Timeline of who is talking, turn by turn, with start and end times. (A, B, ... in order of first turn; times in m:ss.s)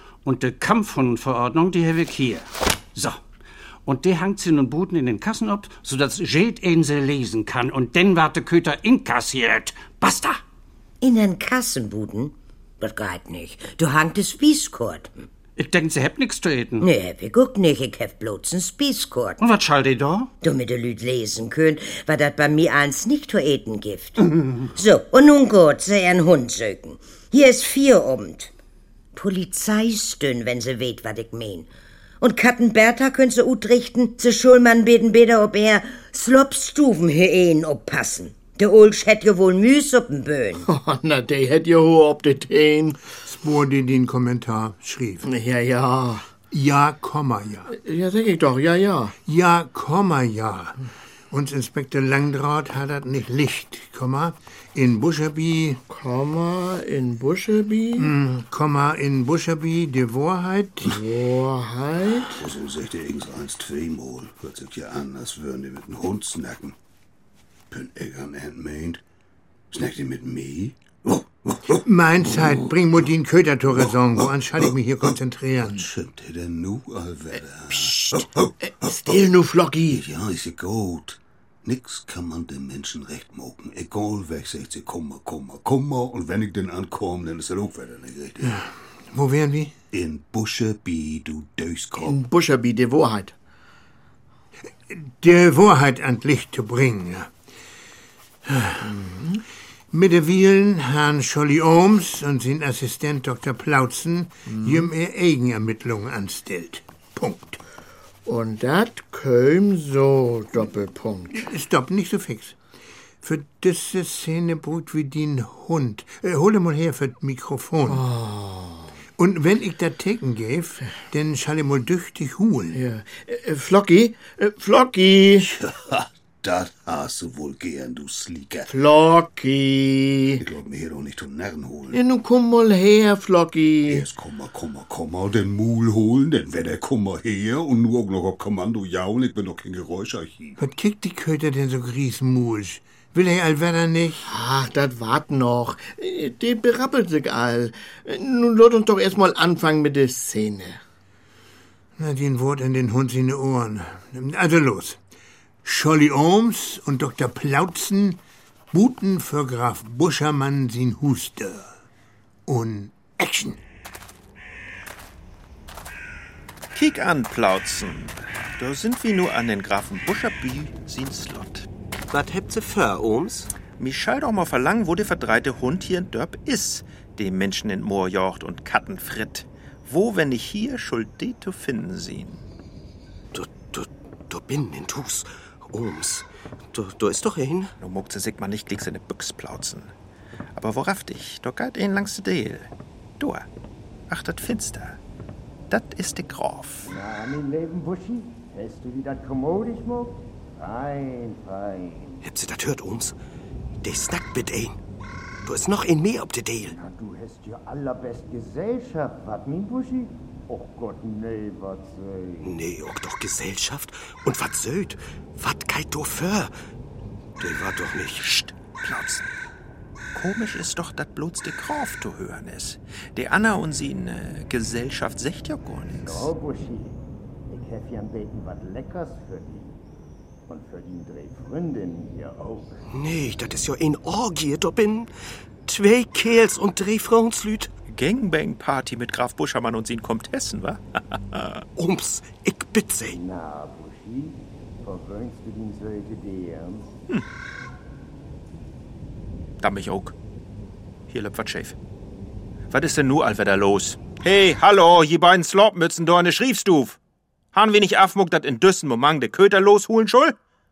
0:00.2-0:03.2 A
0:03.8-0:10.4 A
0:11.0-0:15.2 B
0:15.6-0:16.9 A
0:16.8-0:19.4 B
0:19.4-0:20.3 A
0:20.4-0:28.5 B
0:29.2-0:31.7 B
0:32.2-0:40.7 B
0:40.6-0:43.0 C
0:43.2-0:45.3 D
0:45.2-0:46.3 C
0:46.5-0:47.7 D
0:47.7-0:49.2 C
0:49.3-0:50.8 D
0:51.3-0:55.8 D
0:55.9-0:58.1 C
0:58.0-1:01.0 D
1:00.9-1:02.4 C
1:02.3-1:06.8 E
1:07.7-1:09.0 E
1:09.7-1:11.8 E
1:11.8-1:15.9 D
1:15.7-1:18.9 E
1:17.7-1:20.0 C
1:19.9-1:28.6 E
1:28.4-1:29.8 D
1:29.9-1:32.2 E
1:32.0-1:33.4 C
1:34.9-1:37.3 D
1:38.5-1:38.9 D
1:39.9-1:47.6 D
1:48.3-1:51.4 C
1:51.3-1:52.6 D
1:53.2-1:58.0 D
1:57.9-1:58.9 C
1:59.2-2:02.8 D
2:02.7-2:05.5 C
2:05.4-2:08.7 E
2:08.7-2:10.4 C
2:10.4-2:12.0 E
2:11.9-2:14.0 C
2:13.9-2:20.6 E
2:20.6-2:24.3 D
2:24.2-2:30.8 C
2:32.0-2:35.0 D
2:35.6-2:38.2 D
2:38.7-2:41.7 D
2:42.5-2:43.6 D
2:46.7-2:51.7 F
2:52.1-2:53.5 G
2:53.8-3:02.4 F
3:03.3-3:07.7 G
3:07.8-3:09.9 F
3:10.6-3:13.5 F
3:14.1-3:15.0 F
3:15.7-3:16.9 F
3:16.9-3:22.2 H
3:22.2-3:23.2 G
3:23.8-3:24.8 G
3:25.4-3:26.8 G
3:26.7-3:32.5 H
3:32.4-3:36.5 G
3:37.4-3:39.2 G
3:38.8-3:39.2 F
3:40.1-3:46.3 F
3:46.0-3:47.0 H
3:47.5-3:49.8 H
3:50.5-3:52.8 H
3:52.9-3:55.1 G
3:55.7-3:57.7 G
3:57.9-4:01.6 F
4:01.8-4:03.2 G
4:03.1-4:06.9 H
4:09.6-4:10.2 F
4:11.1-4:11.8 F
4:12.7-4:17.0 F
4:17.5-4:20.4 F